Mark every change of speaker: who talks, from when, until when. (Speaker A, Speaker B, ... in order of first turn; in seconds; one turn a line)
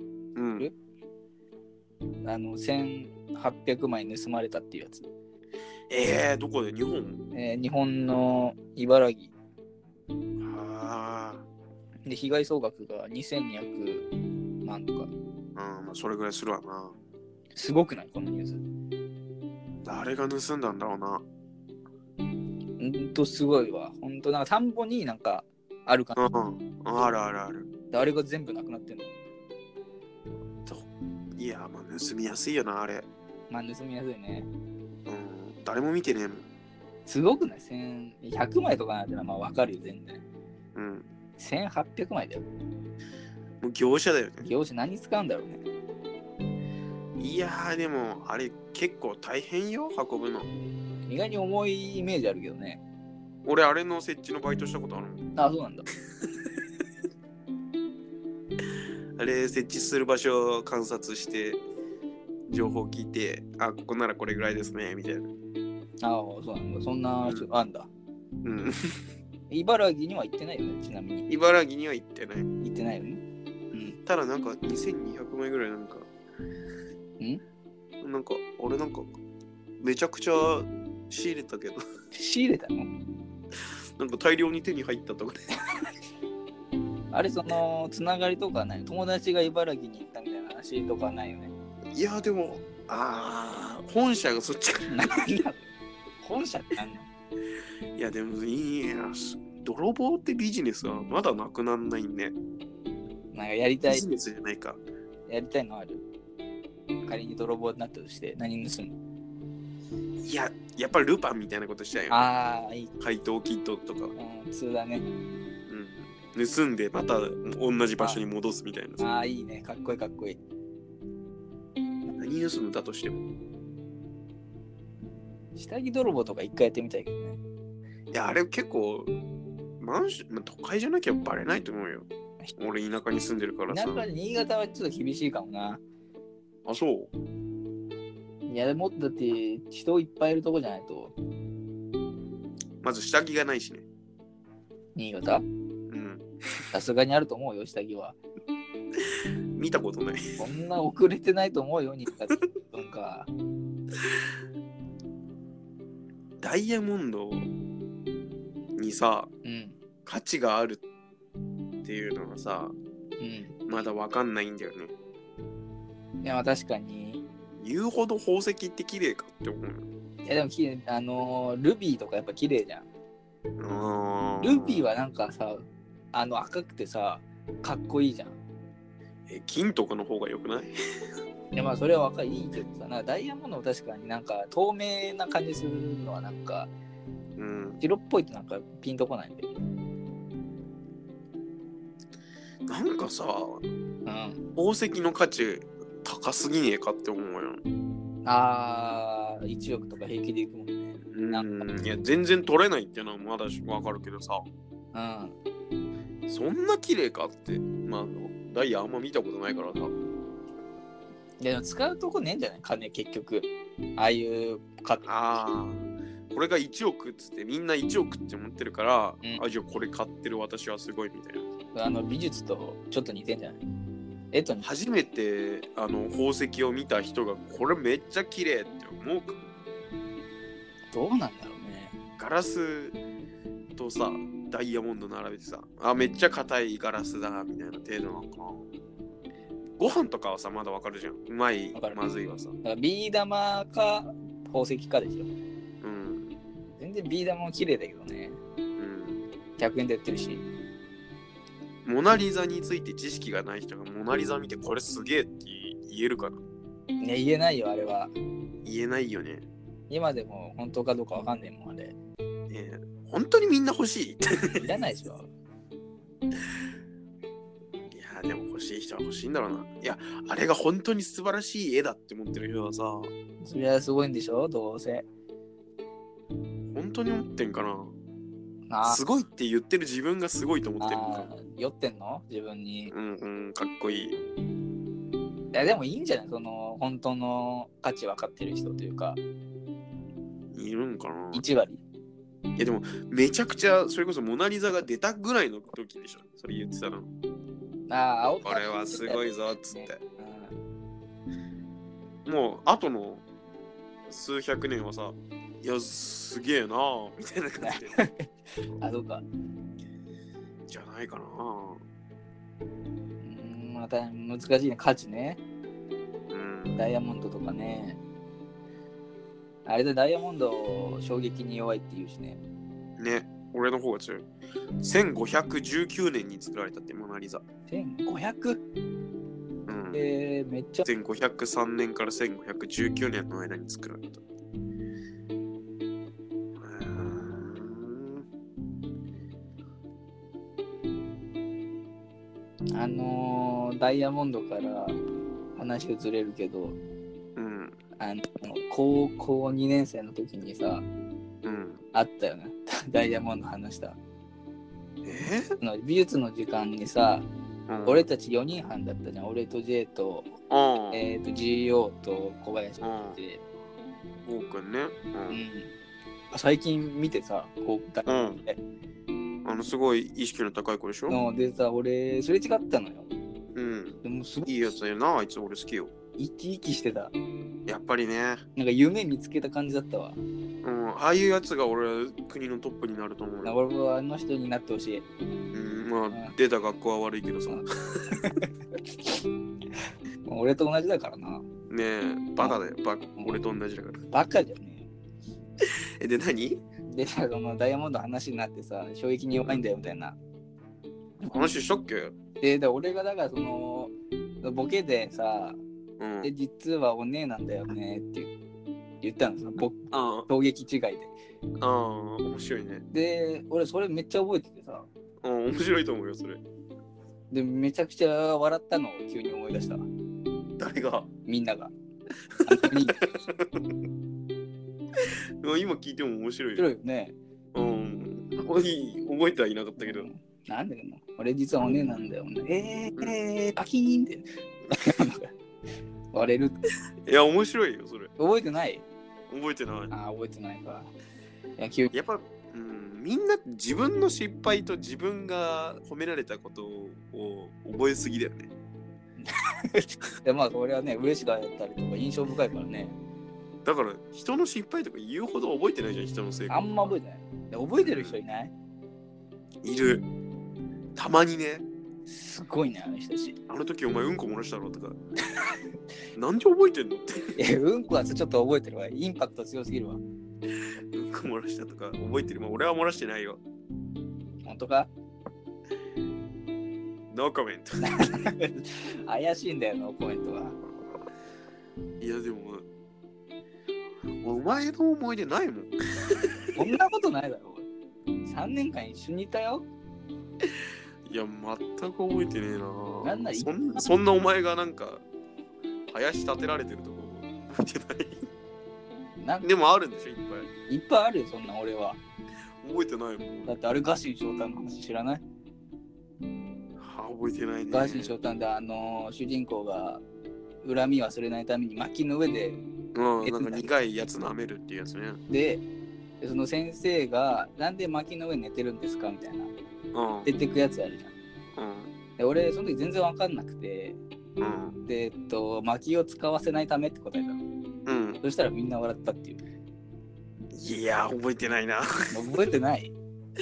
Speaker A: 0.4-0.7
Speaker B: 2.2-5.1
Speaker A: 5.9-7.2
Speaker B: 7.3-9.3
Speaker A: 10.4-11.4
Speaker B: 12.1-14.1
Speaker B: 14.6-15.1
Speaker A: 15.6-16.9
Speaker B: 17.6-18.6
Speaker A: 19.8-21.2
Speaker B: 22.8-26.2
Speaker A: 26.1-27.7
Speaker B: 27.9-29.1
Speaker A: 30.6-33.1
Speaker B: 33.5-34.5
Speaker A: 35.1-36.5
Speaker B: 37.1-40.2
Speaker A: 40.8-41.1
Speaker B: 41.4-42.5
Speaker A: 43.6-44.5
Speaker B: 44.4-45.6
Speaker A: 47.2-50.5
Speaker B: 51.1-52.8
Speaker A: 53.5-55.2
Speaker B: 55.4-55.9
Speaker A: 59.2-61.6
Speaker A: 62.5-65.3
Speaker B: 66.0-67.9
Speaker A: 68.4-69.0
Speaker B: 69.5-71.3
Speaker A: 71.3-72.5
Speaker B: 72.6-73.2
Speaker B: 73.7-74.0
Speaker A: 74.0-76.1
Speaker A: 78.0-79.1
Speaker A: 79.8-81.8
Speaker B: 82.1-82.9
Speaker A: 84.0-85.5
Speaker B: 87.1-91.5
Speaker A: 92.0-95.1
Speaker B: 94.9-95.7
Speaker B: 96.2-97.1
Speaker A: 98.0-102.3
Speaker B: 103.3-104.1
Speaker A: 103.8-104.8
Speaker B: 105.3-106.1
Speaker B: 107.1-109.0
Speaker A: 110.2-112.2
Speaker B: 112.1-112.9
Speaker A: 113.0-114.1
Speaker B: 114.2-115.1
Speaker A: 115.7-119.0
Speaker B: 119.0-120.4
Speaker A: 122.1-123.2
Speaker B: 125.5-127.4
Speaker A: 128.1-129.1
Speaker A: 129.8-134.1
Speaker B: 133.7-135.8
Speaker A: 136.7-137.1
Speaker B: 138.5-141.1
Speaker A: 142.8-143.8
Speaker B: 144.9-145.4
Speaker A: 145.9-146.3
Speaker B: 146.7-148.2
Speaker A: 149.5-150.3
Speaker B: 150.4-153.3
Speaker A: 156.4-157.5
Speaker A: 158.8-159.3
Speaker B: 159.4-159.8
Speaker A: 160.1-160.8
Speaker A: 161.8-162.7
Speaker B: 163.2-163.6
Speaker A: 163.7-164.9
Speaker B: 166.2-167.2
Speaker A: 167.6-169.8
Speaker B: 170.2-172.9
Speaker A: 173.6-174.9
Speaker B: 174.4-178.4
Speaker A: 179.3-180.7
Speaker B: 181.5-186.7
Speaker A: 187.4-187.8
Speaker B: 187.8-189.5
Speaker A: 192.7-193.6
Speaker B: 194.1-194.4
Speaker A: 194.6-197.6
Speaker B: 198.2-201.6
Speaker A: 201.1-204.4
Speaker B: 204.9-205.3
Speaker A: 206.3-209.9
Speaker B: 211.4-215.1
Speaker A: 215.0-221.4
Speaker B: 221.7-223.6
Speaker B: 224.3-224.7
Speaker A: 224.6-229.4
Speaker B: 230.9-231.9
Speaker A: 232.2-233.0
Speaker A: 233.8-238.7
Speaker A: 239.8-242.5
Speaker B: 242.6-245.3
Speaker A: 245.8-246.3
Speaker B: 246.8-248.4
Speaker A: 248.8-249.2
Speaker B: 249.6-250.5
Speaker A: 251.8-256.4
Speaker B: 257.0-258.1
Speaker A: 258.6-259.5
Speaker B: 259.9-262.0
Speaker A: 262.5-264.7
Speaker B: 264.6-265.3
Speaker A: 267.9-273.1
Speaker B: 273.4-275.1
Speaker A: 276.7-277.9
Speaker B: 278.7-279.0
Speaker A: 278.8-281.3
Speaker B: 280.8-282.9
Speaker A: 282.9-284.2
Speaker B: 285.5-289.2
Speaker A: 290.5-291.4
Speaker B: 291.3-291.8
Speaker A: 292.6-297.1
Speaker B: 297.9-300.6
Speaker A: 298.4-300.0
Speaker A: 302.2-303.2
Speaker A: 304.1-308.0
Speaker B: 307.6-309.2
Speaker A: 310.7-311.8
Speaker B: 313.2-315.4
Speaker A: 316.3-316.9
Speaker B: 316.8-318.0
Speaker B: 319.7-322.4
Speaker A: 323.0-324.2
Speaker A: 324.8-327.4
Speaker B: 327.7-328.6
Speaker A: 329.7-330.1
Speaker B: 329.9-330.9
Speaker A: 330.9-334.2
Speaker A: 336.6-338.2
Speaker B: 342.7-345.0
Speaker B: 345.6-346.8
Speaker A: 347.4-347.8
Speaker B: 348.0-350.9
Speaker A: 351.4-351.8
Speaker B: 351.9-354.0
Speaker A: 355.1-355.5
Speaker B: 355.6-357.3
Speaker A: 357.7-358.1
Speaker B: 357.9-360.4
Speaker A: 360.5-361.1
Speaker B: 360.9-363.4
Speaker A: 362.8-363.2
Speaker A: 364.2-365.4
Speaker B: 365.3-365.7
Speaker B: 366.3-368.6
Speaker A: 368.1-368.4
Speaker A: 369.4-371.2
Speaker B: 371.1-373.1
Speaker A: 373.6-375.9
Speaker B: 374.0-374.8
Speaker B: 376.2-377.1
Speaker A: 377.7-378.4
Speaker B: 378.6-380.2
Speaker A: 380.6-383.6
Speaker B: 383.4-385.1
Speaker A: 385.5-388.2
Speaker B: 387.5-388.5
Speaker B: 390.2-391.5
Speaker A: 391.7-394.1
Speaker B: 394.1-394.9
Speaker A: 396.0-396.6
Speaker B: 396.9-400.2
Speaker A: 401.2-402.1
Speaker B: 402.4-405.6
Speaker A: 406.0-406.3
Speaker B: 406.2-408.3
Speaker B: 409.0-411.1
Speaker A: 409.9-410.3
Speaker A: 411.6-412.8
Speaker B: 412.9-414.9
Speaker A: 415.2-416.4
Speaker B: 417.3-419.9
Speaker A: 420.6-421.1
Speaker B: 421.2-421.7
Speaker A: 422.3-423.7
Speaker B: 422.5-423.1
Speaker A: 425.4-426.7
Speaker B: 426.6-427.1
Speaker A: 427.5-430.1
Speaker B: 429.8-435.3
Speaker A: 433.0-433.3
Speaker B: 436.1-436.6
Speaker A: 437.1-438.1
Speaker B: 438.2-438.9
Speaker A: 439.3-439.9
Speaker B: 439.9-440.9
Speaker B: 441.6-441.9
Speaker A: 441.9-448.5
Speaker B: 449.2-453.0
Speaker A: 453.6-456.9
Speaker B: 456.5-458.5
Speaker A: 457.8-458.2
Speaker A: 459.6-460.1
Speaker A: 460.9-461.7
Speaker B: 462.1-463.4
Speaker A: 463.5-465.0
Speaker B: 465.3-465.6
Speaker A: 466.1-467.4
Speaker B: 467.4-470.0
Speaker A: 470.9-473.4
Speaker B: 474.4-474.9
Speaker A: 477.1-478.2
Speaker B: 477.8-480.6
Speaker A: 482.0-482.6
Speaker A: 484.2-485.7
Speaker B: 486.6-487.7
Speaker B: 488.2-489.7
Speaker A: 491.1-495.0
Speaker B: 493.0-493.8
Speaker A: 495.9-498.3
Speaker B: 499.2-499.5
Speaker A: 499.4-500.5
Speaker B: 500.7-502.0
Speaker A: 502.6-503.6
Speaker B: 503.5-505.2
Speaker A: 506.8-508.1
Speaker B: 507.7-510.0
Speaker B: 510.6-512.6
Speaker A: 512.9-515.2
Speaker B: 513.2-513.7
Speaker B: 515.3-515.6
Speaker B: 516.2-519.5
Speaker A: 519.9-520.3
Speaker B: 520.2-521.1
Speaker A: 521.6-521.9
Speaker B: 522.2-524.0
Speaker A: 524.4-524.8
Speaker B: 524.9-527.4
Speaker A: 527.9-528.2
Speaker B: 528.2-529.4
Speaker A: 530.5-532.2
Speaker B: 532.1-533.0